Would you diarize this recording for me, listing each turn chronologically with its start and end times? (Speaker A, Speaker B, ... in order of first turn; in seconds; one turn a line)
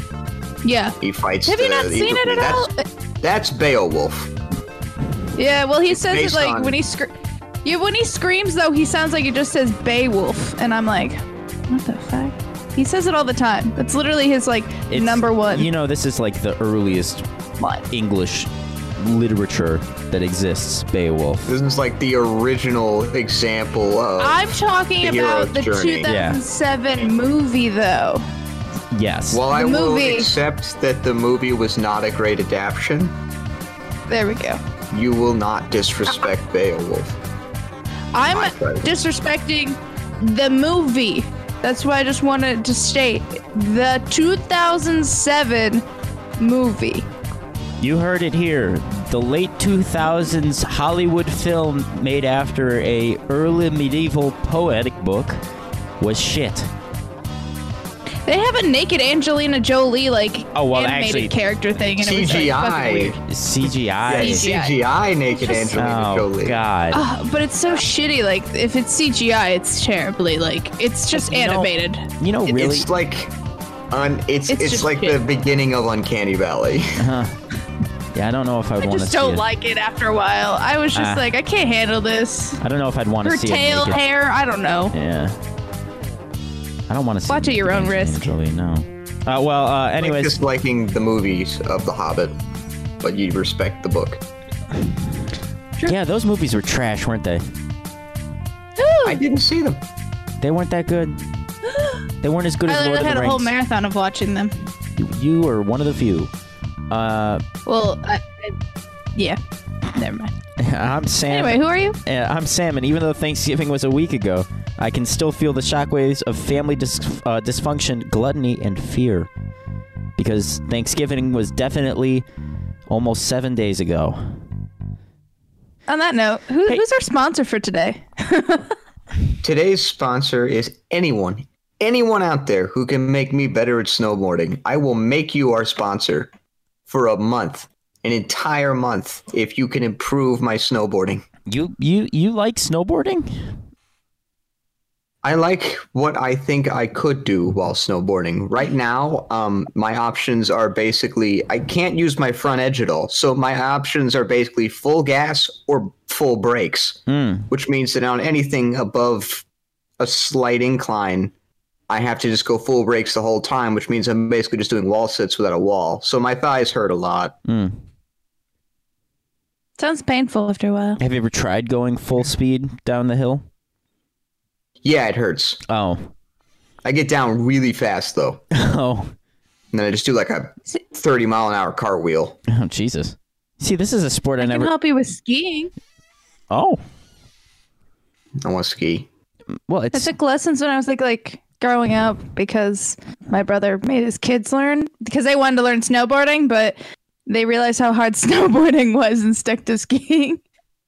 Speaker A: 0.6-2.8
Speaker B: 1.0-2.7
Speaker B: 3.2-4.3
Speaker A: 5.4-7.1
Speaker B: 5.9-6.8
Speaker A: 7.7-15.7
Speaker C: 14.9-17.2
Speaker A: 17.6-17.9
Speaker C: 17.9-21.6
Speaker B: 21.5-26.1
Speaker A: 24.2-28.2
Speaker C: 26.1-26.4
Speaker C: 28.9-29.4
Speaker B: 29.3-33.1
Speaker A: 29.5-30.3
Speaker A: 34.1-34.6
Speaker B: 34.9-37.2
Speaker A: 38.1-45.8
Speaker B: 38.2-39.0
Speaker A: 46.4-47.1
Speaker C: 47.8-55.4
Speaker C: 56.0-56.7
Speaker A: 58.3-63.2
Speaker C: 60.5-61.3
Speaker B: 62.0-63.2
Speaker C: 63.3-64.5
Speaker B: 64.0-66.6
Speaker A: 64.1-64.8
Speaker A: 65.3-65.7
Speaker C: 65.7-67.0
Speaker A: 66.9-72.7
Speaker C: 71.1-72.9
Speaker B: 72.5-73.3
Speaker B: 73.9-76.9
Speaker A: 74.5-75.2
Speaker C: 77.0-77.3
Speaker C: 78.1-79.4
Speaker A: 78.8-82.6
Speaker C: 81.0-81.2
Speaker C: 82.6-84.0
Speaker A: 83.2-84.9
Speaker C: 84.9-85.4
Speaker C: 86.9-90.3
Speaker A: 87.3-88.3
Speaker B: 90.0-92.3
Speaker B: 93.0-94.2
Speaker C: 95.9-97.4
Speaker A: 98.8-99.2
Speaker B: 99.0-99.8
Speaker C: 100.4-101.2
Speaker A: 101.7-102.0
Speaker C: 102.2-103.5
Speaker A: 102.7-104.7
Speaker C: 105.0-106.3
Speaker C: 106.9-107.4
Speaker A: 107.7-108.5
Speaker A: 110.0-110.3
Speaker C: 110.6-119.3
Speaker A: 111.3-112.0
Speaker C: 120.2-122.2
Speaker C: 122.9-124.4
Speaker A: 125.9-128.8
Speaker B: 129.4-136.3
Speaker B: 136.9-141.3
Speaker C: 141.5-143.3
Speaker B: 145.2-159.4
Speaker C: 157.1-157.5
Speaker B: 160.0-161.3
Speaker B: 161.9-167.4
Speaker C: 167.5-167.8
Speaker A: 169.8-171.0
Speaker C: 171.0-173.4
Speaker B: 174.8-175.6
Speaker C: 175.7-176.1
Speaker B: 176.8-178.4
Speaker C: 178.5-179.1
Speaker B: 179.7-182.4
Speaker C: 182.5-184.7
Speaker A: 184.4-185.7
Speaker C: 186.5-186.8
Speaker B: 188.4-189.1
Speaker C: 189.7-190.1
Speaker A: 189.9-200.4